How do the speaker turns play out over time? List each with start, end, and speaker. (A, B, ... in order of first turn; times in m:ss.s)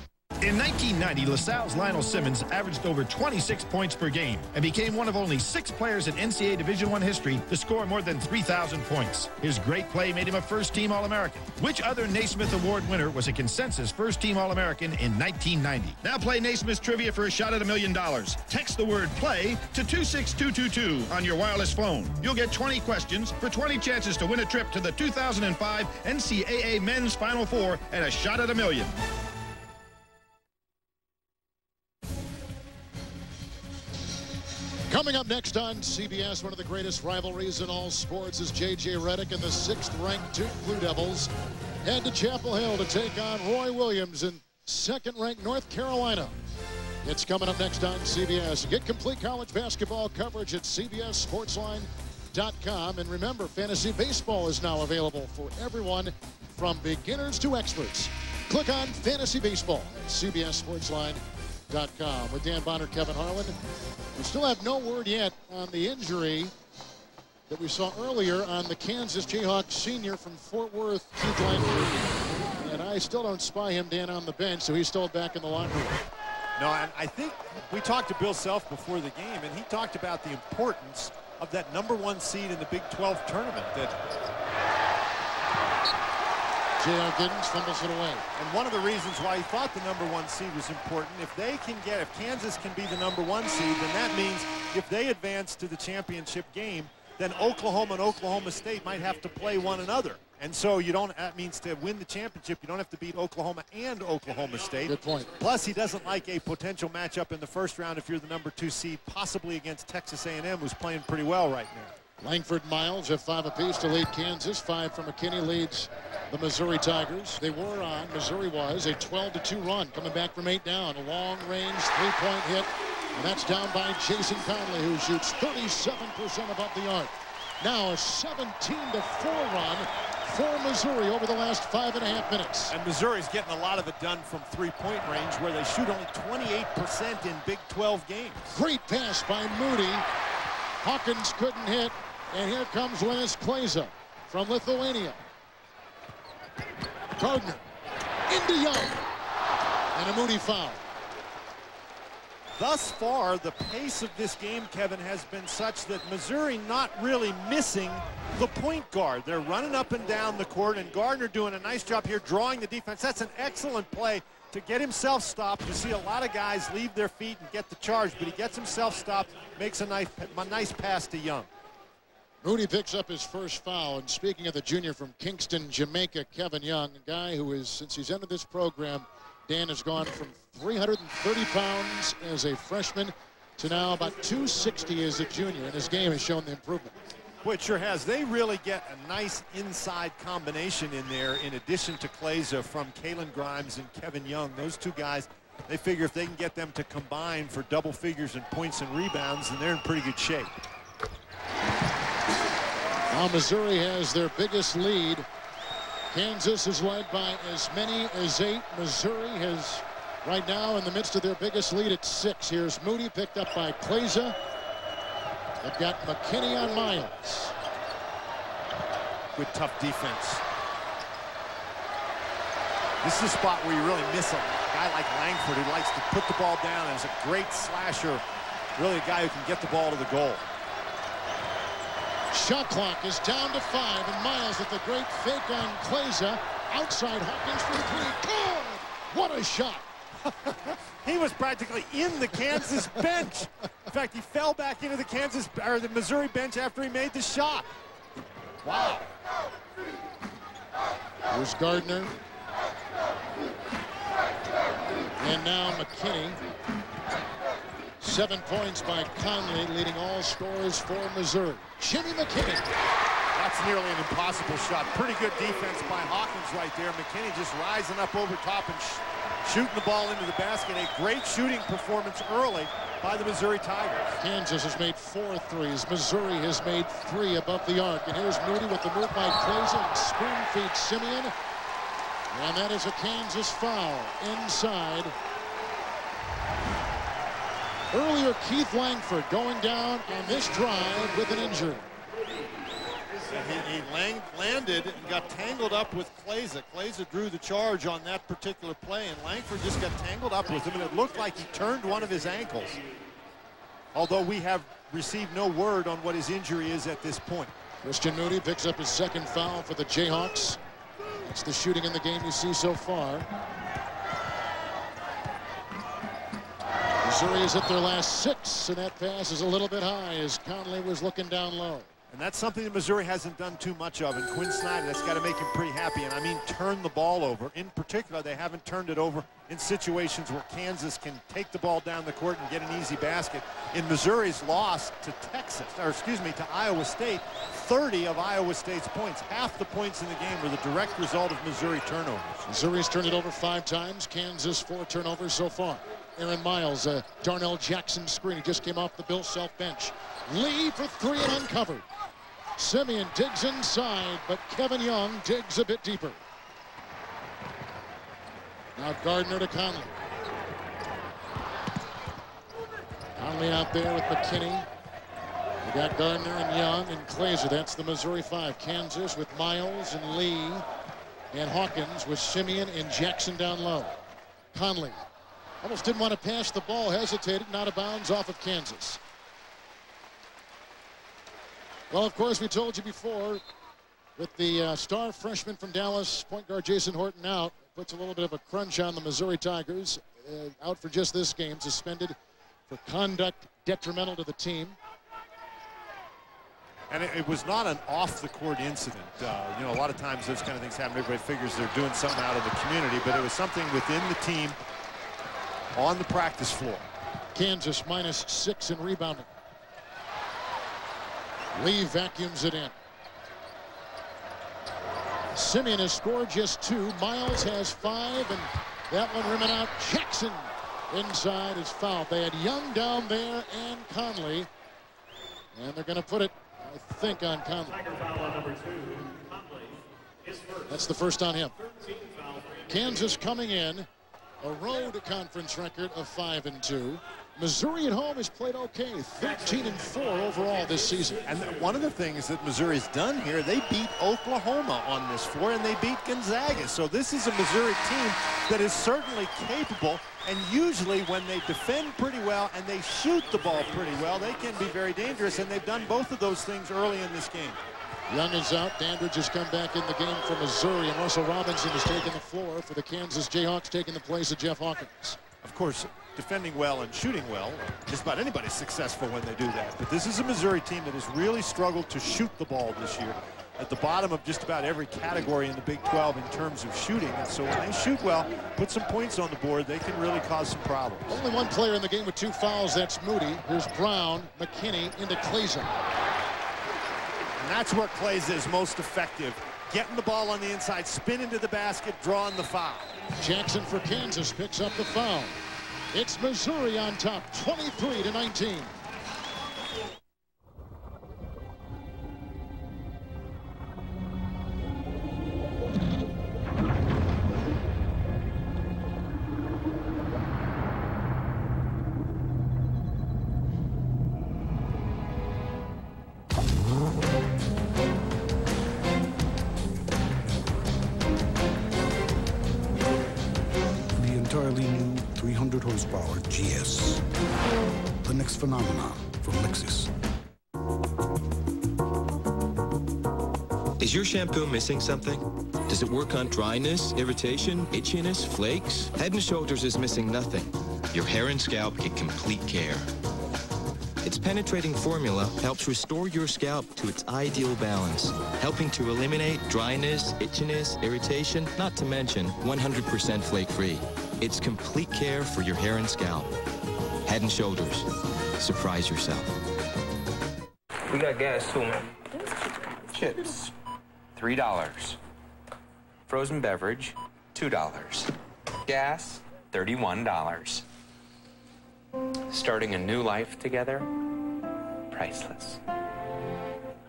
0:00.4-0:28.9 A
0:34.9-0:41.3 B
0:41.8-0:46.4 B
0:47.0-1:03.6 B
1:04.2-1:06.5 B
1:07.5-1:16.0 B
1:16.6-1:23.9 C
1:26.8-1:28.2 B
1:28.3-1:51.9 C
1:44.9-1:45.3 B
1:52.2-2:12.7 B
2:12.7-2:18.6 C
2:18.5-2:20.0 B
2:20.8-2:25.2 B
2:27.2-2:27.6 B
2:28.3-2:29.0 B
2:29.9-2:30.8 B
2:32.6-2:51.5 C
2:52.4-3:07.0 B
3:07.4-3:20.5 C
3:23.1-3:25.2 B
3:26.1-3:34.4 B
3:35.6-3:37.5 B
3:39.3-3:40.4 C
3:43.0-3:48.2 C
3:48.8-3:50.4 C
3:52.3-3:59.8 B
4:00.3-4:07.7 C
4:11.3-4:12.1 B
4:15.2-4:16.4 B
4:18.0-4:22.7 B
4:23.3-4:34.2 C
4:34.2-4:41.3 B
4:42.3-4:45.1 B
4:47.9-4:51.8 B
4:53.3-5:02.8 C
5:03.9-5:07.5 C
5:07.8-5:10.6 B
5:11.2-5:13.2 B
5:17.0-5:21.9 B
5:22.1-5:42.4 C
5:42.5-5:51.8 B
5:52.6-5:56.2 B
5:58.8-6:00.0 B
6:03.2-6:04.7 B
6:05.6-6:10.6 B
6:11.3-6:14.0 B
6:14.5-6:15.0 B
6:15.6-6:19.0 B
6:21.9-6:23.4 B
6:24.2-6:32.1 B
6:32.7-6:34.8 B
6:36.9-6:44.6 C
6:45.7-6:46.8 C
6:47.3-6:49.3 B
6:51.5-6:52.7 B
6:55.3-7:04.5 B
7:05.5-7:07.8 B
7:10.7-7:11.5 B
7:12.7-7:13.9 B
7:14.4-7:21.2 B
7:21.2-7:37.6 C
7:38.1-7:45.2 B
7:45.4-8:01.2 C
8:01.1-8:05.7 B
8:07.4-8:13.0 C
8:13.2-8:15.4 B
8:15.9-8:18.7 B
8:44.0-8:47.0 D
8:48.0-8:49.9 D
8:53.8-9:02.9 E
9:04.0-9:16.3 E
9:17.0-9:17.9 E
9:18.4-9:19.3 E
9:20.9-9:21.8 F
9:22.9-9:23.5 F
9:24.1-9:25.0 F
9:26.1-9:28.1 F
9:28.6-9:30.6 F
9:32.3-9:33.9 F
9:34.9-9:35.6 F